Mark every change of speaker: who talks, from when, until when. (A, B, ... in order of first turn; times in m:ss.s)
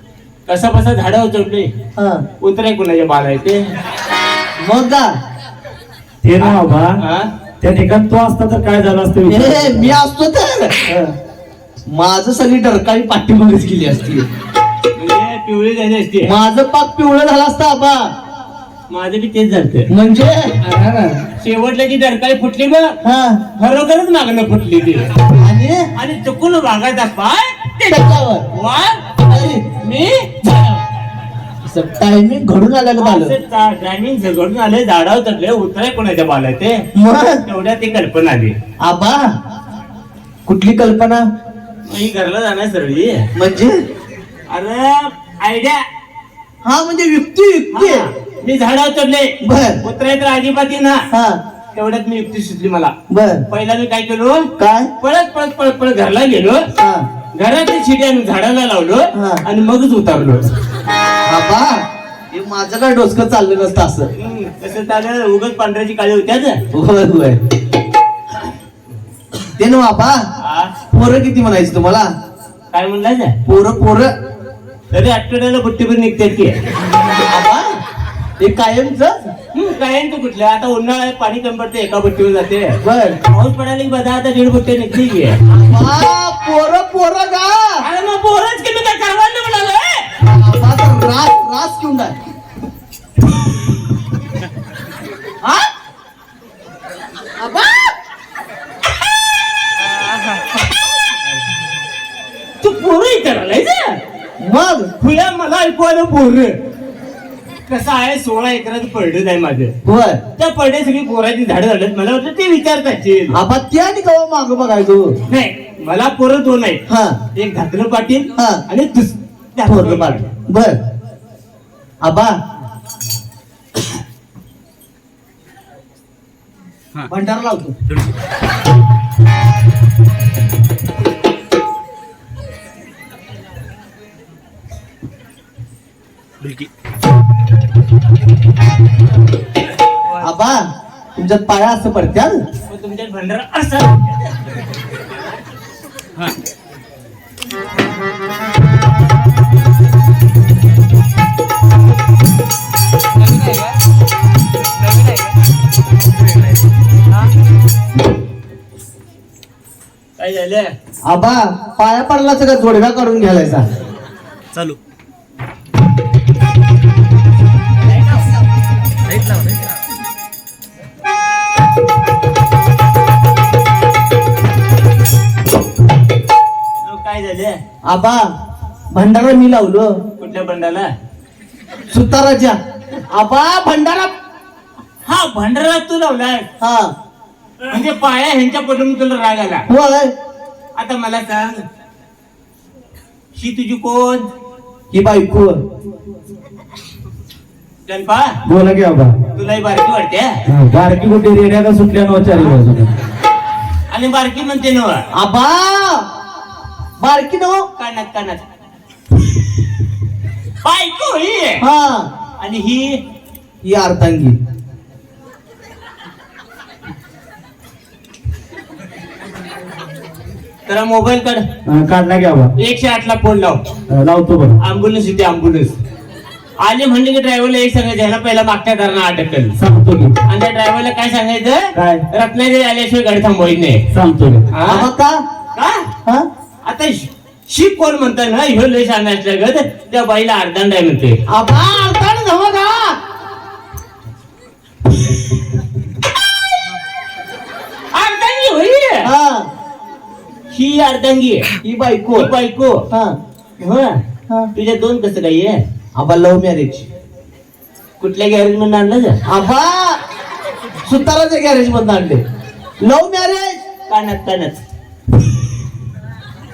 0:00.5-0:01.7 A
0:02.0-0:02.2 B
0:02.4-0:03.6 A
0:04.6-0:05.1 B
0:06.2-0:07.0 C
0:06.4-0:07.3 A
0:07.6-0:10.0 C
0:09.3-0:10.9 B
0:11.9-0:14.2 B
0:15.0-0:16.3 A
0:16.2-0:18.1 B
0:18.9-0:19.9 A
0:19.9-0:20.6 B
0:21.4-0:22.9 A
0:23.0-0:23.4 B
0:23.6-0:25.1 A
0:25.3-0:25.9 B
0:26.0-0:30.8 A
0:27.9-0:28.5 B
0:31.6-0:33.4 B
0:33.0-0:36.8 A
0:36.9-0:37.4 B
0:37.4-0:38.5 A
0:38.8-0:39.3 B
0:40.4-0:41.2 B
0:41.9-0:43.2 A
0:43.4-0:43.8 B
0:44.5-0:45.8 A
0:46.6-0:48.0 B
0:47.7-0:51.0 A
0:49.4-0:49.8 B
0:51.1-0:51.4 B
0:51.7-0:52.9 A
0:53.1-0:53.4 B
0:53.5-0:54.5 A
0:54.6-0:54.9 B
0:55.0-0:56.6 A
0:56.8-0:57.0 B
0:57.4-1:00.5 A
0:59.1-0:59.4 B
1:01.2-1:04.1 B
1:04.2-1:06.6 A
1:06.7-1:07.4 B
1:09.6-1:10.2 B
1:10.4-1:10.7 A
1:10.9-1:12.1 B
1:12.7-1:13.4 A
1:13.4-1:14.1 B
1:14.9-1:16.6 A
1:17.2-1:17.7 B
1:18.4-1:19.1 B
1:19.5-1:25.3 A
1:22.8-1:23.2 B
1:25.5-1:27.8 B
1:27.8-1:30.0 A
1:30.2-1:32.2 B
1:35.4-1:35.7 B
1:37.4-1:37.9 B
1:42.6-1:44.0 A
1:44.4-1:44.9 B
1:45.0-1:46.5 A
1:47.7-1:49.7 A
1:49.8-1:50.2 B
1:50.4-1:53.4 A
1:53.3-1:55.1 B
1:55.3-1:56.8 A
1:56.9-1:57.2 B
1:57.4-2:00.2 A
1:58.4-1:58.6 B
1:59.6-2:00.8 B
2:02.0-2:02.3 B
2:07.1-2:07.8 B
2:20.2-2:22.4 B
2:22.7-2:24.2 A
2:40.2-2:40.7 A
2:41.1-2:43.6 B
2:56.8-2:57.6 A
2:57.9-2:58.3 B
2:58.9-2:59.9 B
3:00.2-3:00.9 A
3:01.9-3:02.6 B
3:03.1-3:04.1 B
3:05.0-3:06.4 A
3:06.6-3:06.9 B
3:07.7-3:09.6 A
3:09.7-3:10.1 B
3:10.8-3:11.6 A
3:13.4-3:14.2 A
3:14.9-3:15.6 B
3:17.9-3:18.4 A
3:18.4-3:19.2 C
3:19.4-3:20.4 A
3:20.5-3:22.9 C
3:23.9-3:25.0 A
3:25.1-3:26.0 B
3:27.0-3:27.7 B
3:27.8-3:28.4 A
3:30.6-3:31.6 A
3:31.6-3:32.1 B
3:32.4-3:33.0 A
3:33.6-3:34.4 B
3:40.7-3:41.4 A
3:41.6-3:42.5 C
3:42.6-3:43.6 A
3:43.9-3:44.6 C
3:44.6-3:45.8 A
3:46.6-3:49.5 A
3:49.6-3:50.2 C
3:50.3-3:53.8 A
3:51.8-3:52.0 C
3:53.9-3:54.4 C
3:54.5-3:54.9 A
3:54.7-3:55.2 B
3:55.6-3:55.9 A
3:56.6-4:01.2 A
4:01.3-4:03.0 B
4:07.9-4:09.1 A
4:09.0-4:09.5 B
4:10.5-4:11.4 A
4:11.6-4:12.3 B
4:12.1-4:12.8 A
4:12.9-4:13.2 B
4:13.6-4:14.0 A
4:14.5-4:15.6 A
4:16.0-4:16.9 B
4:18.0-4:19.2 A
4:19.2-4:20.0 B
4:20.8-4:22.2 B
4:22.8-4:23.6 B
4:23.9-4:24.6 A